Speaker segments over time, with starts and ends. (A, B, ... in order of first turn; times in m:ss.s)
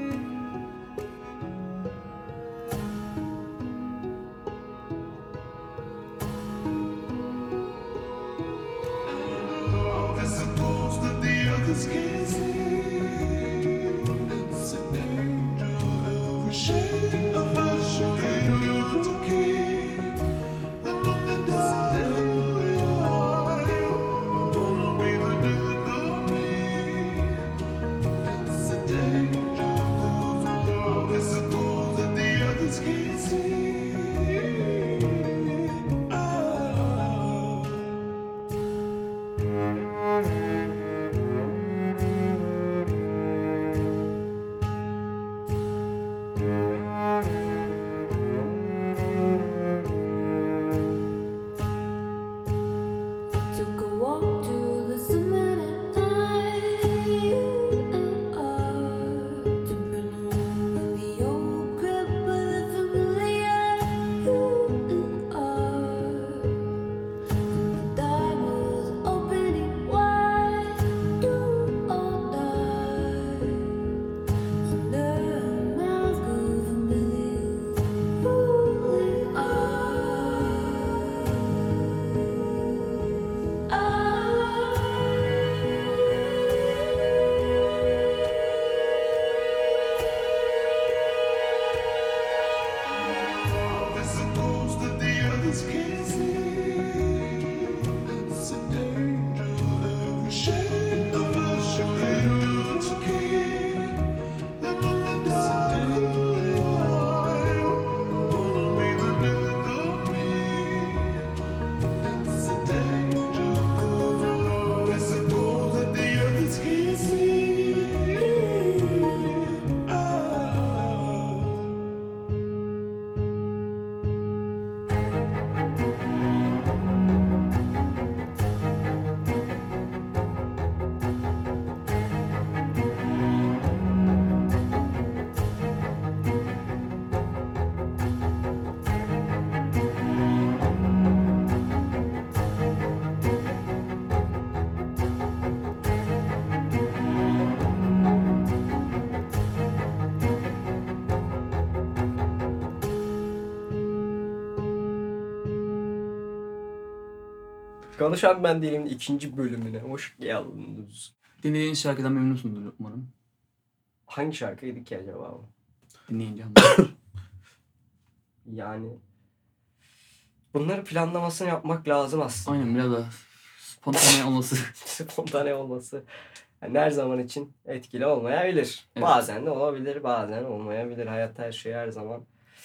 0:09.2-0:20.2 A
0:20.8-0:27.4 A
0:28.5-0:29.9 A
0:30.8-0:34.6 A
0:36.2-0:37.8 A
0:53.5-1:06.8 B
1:07.5-1:14.0 B
1:14.6-1:22.7 B
1:23.7-1:27.3 B
1:34.3-1:44.1 A
1:44.6-1:51.3 A
1:52.2-1:56.9 A
1:58.0-1:59.5 B
2:00.4-2:01.4 A
2:38.0-2:41.1 C
2:41.4-2:43.1 D
2:44.1-2:45.5 C
2:46.1-2:46.9 D
2:48.5-2:49.0 C
2:50.5-2:52.7 C
2:52.4-2:54.7 D
2:54.8-2:56.0 C
2:56.6-3:02.2 C